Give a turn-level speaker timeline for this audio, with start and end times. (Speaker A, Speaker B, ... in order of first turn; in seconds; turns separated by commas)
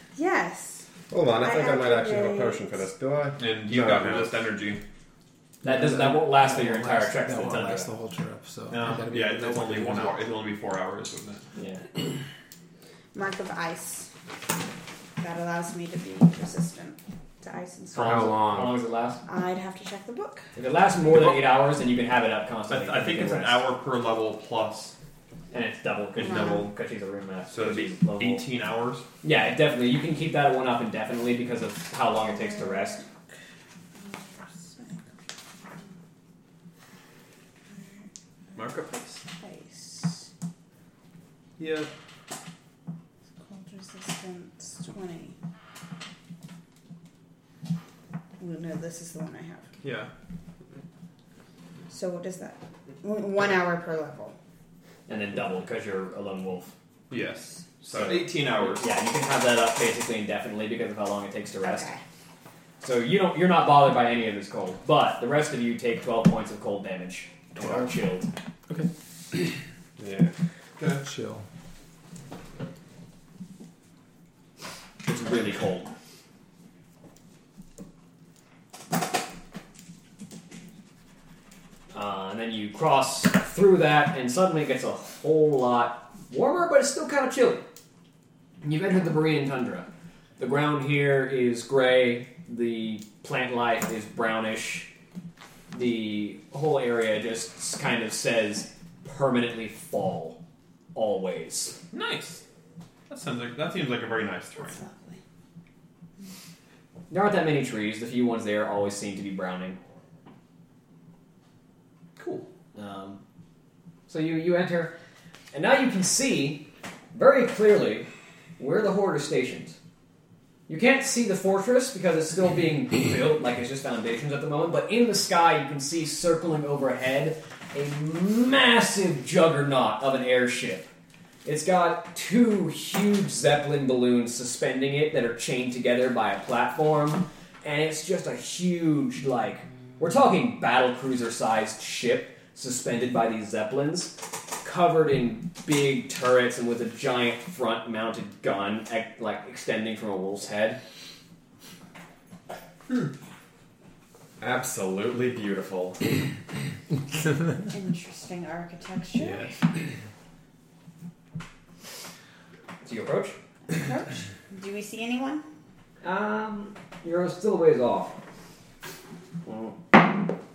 Speaker A: 0.1-0.8, Speaker B: 1.1-4.3, Speaker A: 1.4-2.8, Speaker C: 3.4-4.8, Speaker D: 5.6-10.2, Speaker E: 5.6-8.0, Speaker C: 8.7-11.4, Speaker E: 11.6-11.8, Speaker A: 13.1-14.1, Speaker A: 15.2-18.4, Speaker B: 17.9-18.8, Speaker E: 18.5-19.2, Speaker A: 19.2-20.5, Speaker E: 20.6-23.6, Speaker C: 22.7-24.9, Speaker E: 25.5-28.4, Speaker A: 26.2-26.7, Speaker C: 26.2-26.6, Speaker C: 27.5-29.1, Speaker E: 29.2-33.0, Speaker A: 32.4-33.0, Speaker A: 34.0-35.0, Speaker A: 37.7-38.6, Speaker C: 38.5-39.2, Speaker A: 39.4-40.3, Speaker C: 41.6-41.9, Speaker A: 43.4-45.4, Speaker A: 48.4-49.7, Speaker C: 49.8-50.1, Speaker A: 51.9-54.4, Speaker E: 55.1-56.7, Speaker C: 57.1-58.9, Speaker E: 57.8-61.9, Speaker A: 61.6-62.0, Speaker E: 62.8-68.3, Speaker B: 70.0-70.3, Speaker C: 70.8-71.0, Speaker D: 71.0-71.5, Speaker E: 75.0-75.9, Speaker E: 81.9-87.7, Speaker E: 88.6-94.9, Speaker E: 95.7-100.4, Speaker E: 100.9-101.8, Speaker C: 101.9-102.4, Speaker C: 103.1-104.8, Speaker A: 104.6-105.2, Speaker E: 107.1-109.8, Speaker C: 112.2-112.5, Speaker E: 112.8-113.2, Speaker E: 114.1-114.9, Speaker E: 115.5-118.1, Speaker E: 118.6-119.8, Speaker E: 120.7-130.9, Speaker E: 131.4-150.8, Speaker B: 154.4-156.2, Speaker A: 157.7-159.6, Speaker D: 159.2-159.4, Speaker E: 162.8-163.4, Speaker A: 163.7-165.4, Speaker E: 166.0-168.2, Speaker E: 169.5-169.8